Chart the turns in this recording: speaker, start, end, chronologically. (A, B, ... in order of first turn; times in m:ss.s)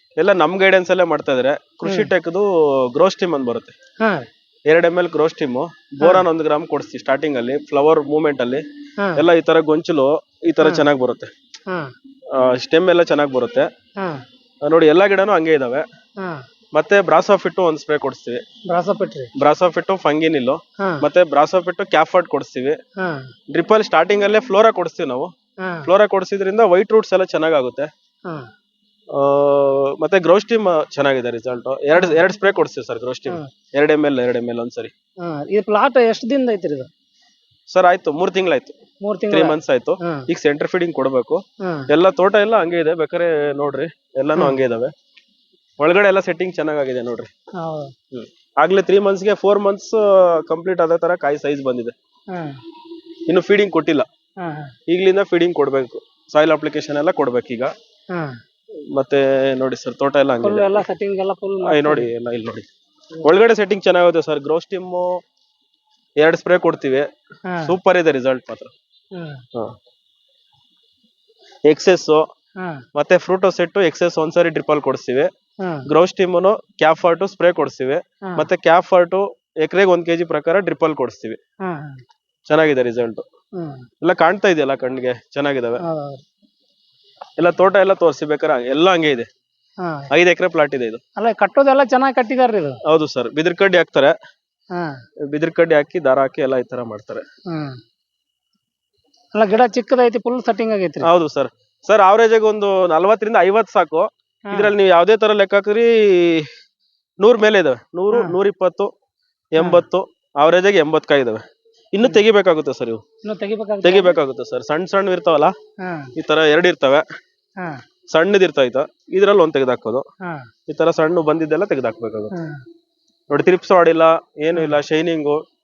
0:00.2-0:03.7 A
0:01.8-0:02.1 B
0:04.0-0:04.3 B
0:04.7-0:08.6 A
0:06.0-0:06.2 B
0:09.0-0:09.2 B
0:09.2-0:11.3 A
0:10.6-0:10.9 B
0:12.3-0:13.7 A
0:14.6-0:15.8 A
0:16.7-0:18.4 A
0:18.7-0:19.3 B
0:19.4-0:22.8 A
0:20.8-0:21.0 B
0:23.0-0:23.3 B
0:23.5-0:25.3 A
0:25.6-0:25.9 B
0:25.8-0:27.9 A
0:29.1-0:34.9 A
0:31.9-0:32.2 B
0:35.2-0:36.9 B
0:37.7-0:38.7 A
0:39.0-0:40.3 B
0:39.3-0:44.9 A
0:41.6-0:41.9 B
0:45.8-0:47.3 A
0:47.6-0:47.9 B
0:48.1-0:51.9 A
0:52.3-0:52.6 B
0:53.3-0:54.1 A
0:54.4-0:54.7 B
0:54.9-0:57.7 A
0:58.1-0:58.4 B
0:58.9-1:00.8 A
1:00.4-1:02.1 B
1:01.6-1:02.6 A
1:03.2-1:05.2 A
1:06.2-1:07.1 A
1:07.5-1:07.7 B
1:07.6-1:08.7 A
1:09.1-1:09.4 B
1:11.7-1:12.2 A
1:12.6-1:12.8 B
1:12.9-1:15.3 A
1:15.6-1:15.9 B
1:15.9-1:21.4 A
1:18.2-1:18.5 B
1:21.6-1:22.0 B
1:22.5-1:23.2 A
1:23.6-1:23.9 B
1:24.0-1:25.8 A
1:25.8-1:26.2 B
1:27.4-1:29.3 A
1:29.8-1:30.1 B
1:30.1-1:31.0 A
1:31.2-1:32.8 B
1:32.8-1:34.1 A
1:34.7-1:35.0 B
1:35.2-1:37.2 A
1:37.5-1:37.8 B
1:39.3-1:41.1 B
1:41.0-1:46.5 A
1:47.2-1:48.9 A
1:49.5-1:53.0 A
1:53.2-1:54.2 B
1:53.8-1:55.5 A
1:55.8-1:56.1 B
1:56.2-1:57.0 A
1:58.1-2:00.0 A
2:00.2-2:00.5 B
2:00.7-2:02.3 A
2:02.3-2:02.6 B
2:03.3-2:05.4 A